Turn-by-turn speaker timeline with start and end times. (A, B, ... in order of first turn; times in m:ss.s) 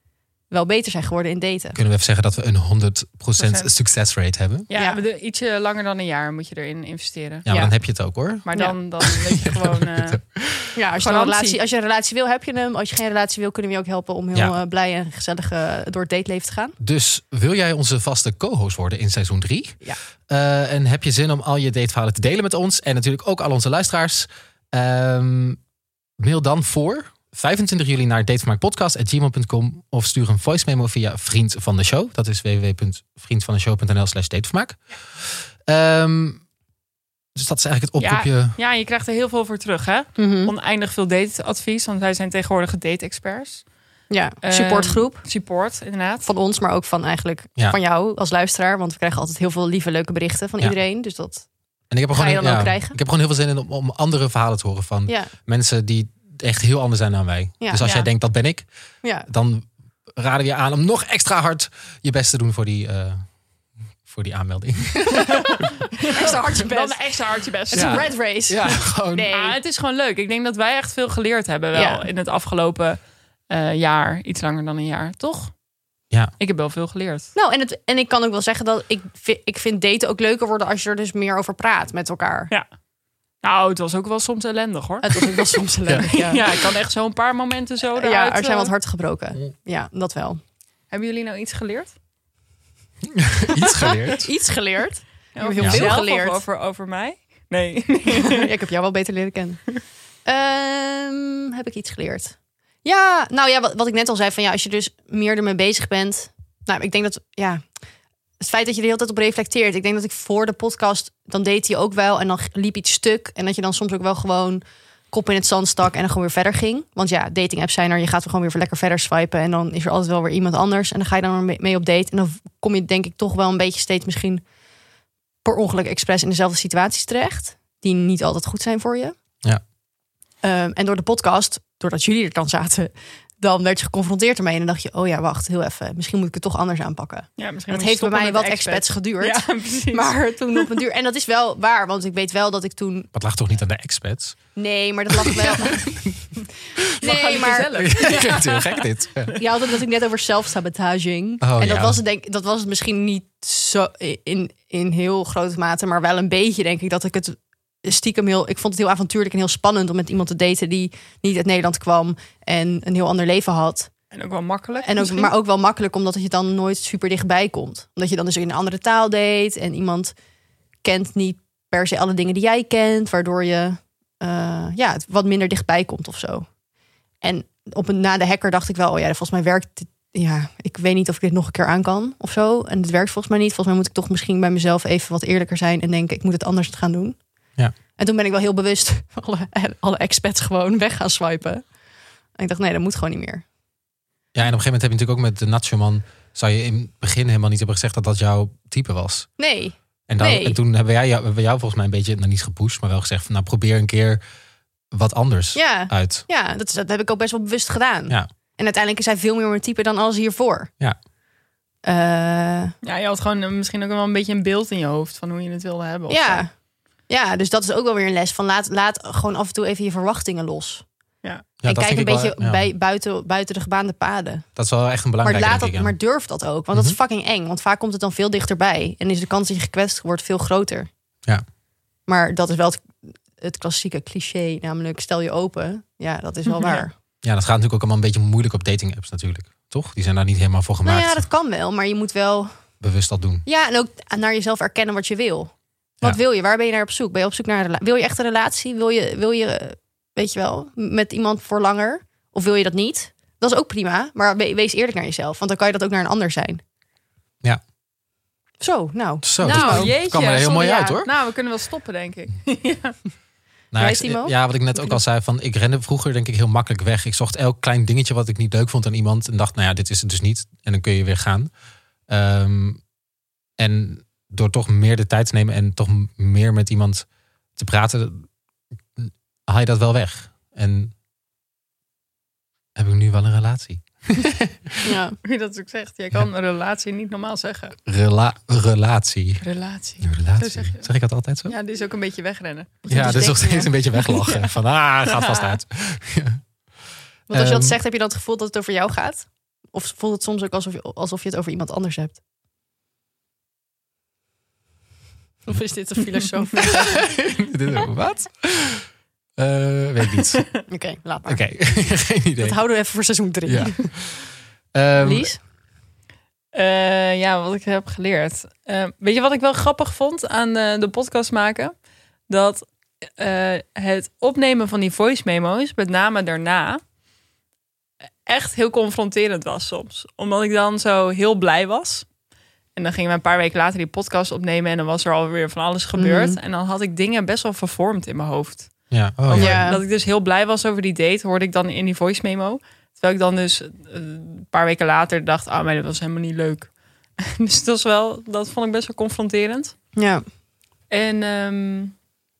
0:00.5-0:01.8 A
0:01.7-0:04.7 B
0:03.4-0:03.7 C
0:04.7-0:07.4 C
0:04.7-0:05.0 A
0:07.4-0:08.5 B
0:08.4-0:10.2 C
0:09.0-0:10.7 B
0:10.8-0:16.8 A
0:10.9-0:11.6 C
0:16.8-0:25.6 B
0:26.2-0:36.4 B
0:37.3-0:38.6 B
0:38.0-0:43.6 C
0:40.2-0:40.5 A
0:44.1-0:45.2 A
0:44.4-0:46.3 C
0:46.2-0:51.4 A
0:51.9-0:58.6 B
0:52.1-0:53.0 A
0:55.1-0:55.3 A
0:57.8-0:58.1 C
0:59.3-1:03.2 B
1:04.0-1:05.8 B
1:05.3-1:08.1 C
1:06.0-1:07.0 A
1:07.7-1:09.6 A
1:07.7-1:09.3 B
1:09.3-1:15.5 C
1:11.7-1:12.1 A
1:16.4-1:17.3 C
1:17.4-1:22.5 A
1:23.4-1:28.7 C
1:25.0-1:26.4 A
1:28.0-1:30.4 A
1:30.9-1:32.0 C
1:33.1-1:34.3 B
1:33.6-1:36.4 A
1:35.3-1:38.5 C
1:35.6-1:35.9 B
1:38.1-1:39.6 A
1:40.2-1:47.6 A
1:48.4-2:04.4 A
2:05.4-2:09.2 A
2:10.4-2:23.1 A
2:17.4-2:20.7 C
2:23.1-2:24.4 B
2:24.6-2:26.2 A
2:25.3-2:26.1 B
2:27.0-2:27.8 A
2:27.0-2:29.3 C
2:27.7-2:29.4 B
2:29.4-2:43.9 A
2:31.4-2:32.0 B
2:44.1-2:45.3 C
2:44.8-2:50.1 A
2:50.8-2:56.5 A
2:57.2-3:07.2 A
3:08.0-3:11.6 A
3:12.4-3:13.4 A
3:14.3-3:19.3 B
3:19.4-3:20.6 A
3:20.1-3:24.2 B
3:24.9-3:26.2 B
3:25.5-3:30.7 A
3:31.8-3:32.7 A
3:32.8-3:36.4 C
3:36.1-3:36.5 A
3:37.1-3:40.8 A
3:41.6-3:42.6 B
3:41.6-3:44.5 A
3:44.6-3:45.9 B
3:45.2-3:50.9 A
3:46.7-3:47.0 B
3:52.1-3:56.9 A
3:56.5-3:56.8 C
3:57.2-4:01.2 B
4:00.8-4:02.5 A
4:02.8-4:03.4 B
4:03.4-4:16.6 A
4:18.6-4:19.9 A
4:19.2-4:21.1 B
4:19.4-4:23.0 C
4:23.7-4:31.5 B
4:23.8-4:25.0 A
4:32.1-4:32.8 B
4:33.6-4:37.0 B
4:37.6-4:38.3 B
4:39.0-4:40.9 B
4:42.8-4:44.9 B
4:44.8-4:45.2 A
4:45.2-4:47.8 C
4:47.8-4:49.4 B
4:49.4-4:50.9 C
4:50.0-4:51.5 B
4:51.5-4:52.8 C
4:52.8-4:54.0 A
4:52.9-4:56.4 B
4:54.0-4:55.6 C
4:57.3-4:57.8 B
4:57.3-5:02.2 A
5:05.4-5:07.0 A
5:06.6-5:10.5 B
5:10.2-5:10.5 C
5:10.7-5:11.5 A
5:11.3-5:12.6 B
5:12.4-5:13.8 A
5:13.4-5:15.3 B
5:15.0-5:15.4 A
5:16.5-5:21.7 C
5:22.3-5:26.8 C
5:28.2-5:32.1 C
5:32.8-5:49.8 C
5:36.0-5:36.4 A
5:38.9-5:39.7 B
5:39.3-5:39.8 A
5:50.0-5:50.2 A
5:50.9-5:51.9 C